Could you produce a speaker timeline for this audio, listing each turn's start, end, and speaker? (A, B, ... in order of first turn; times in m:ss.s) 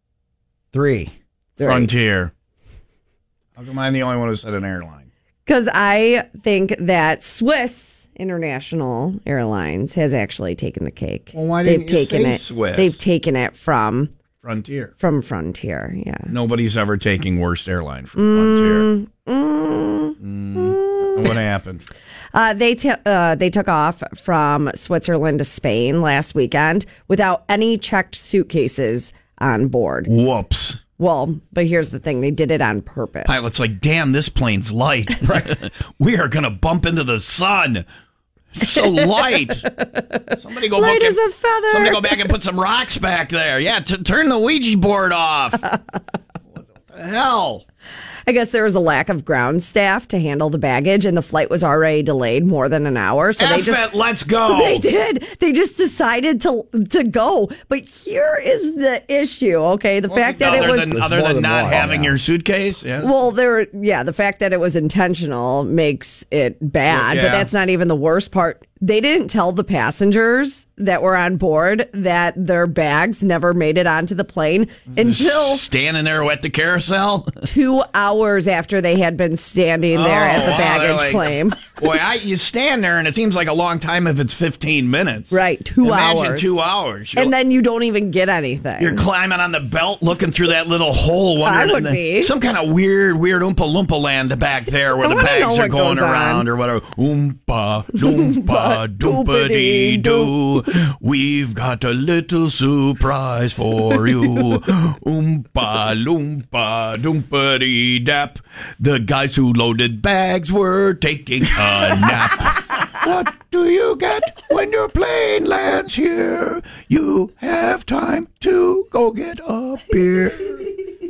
0:00.7-0:01.1 A
0:01.6-0:01.9 B
0:01.6-0:02.3 C
0:03.6-0:05.1 C
0:05.4-0:14.1 B
0:11.3-0:13.0 C
0:14.4-0:14.9 C
0:15.0-0:16.3 B
0:16.3-0:18.9 C
0:18.2-0:21.3 B
0:20.2-0:21.8 C
0:22.3-0:30.1 B
0:30.1-0:30.8 C
0:31.0-0:33.4 B
0:33.2-0:37.8 C
0:38.5-0:39.7 C
0:39.3-0:42.3 B
0:40.4-0:45.7 C
0:46.8-0:47.6 C
0:48.3-0:53.9 B
0:53.4-0:54.8 C
0:54.4-1:01.0 B
1:00.1-1:03.2 C
1:00.4-1:02.2 A
1:03.0-1:15.6 B
1:06.9-1:07.5 C
1:14.9-1:17.5 C
1:17.4-1:21.6 B
1:19.9-1:27.3 C
1:25.3-1:26.6 B
1:27.1-1:29.0 B
1:28.8-2:00.7 C
1:31.4-1:32.3 B
1:35.0-1:36.4 B
1:38.2-1:40.3 B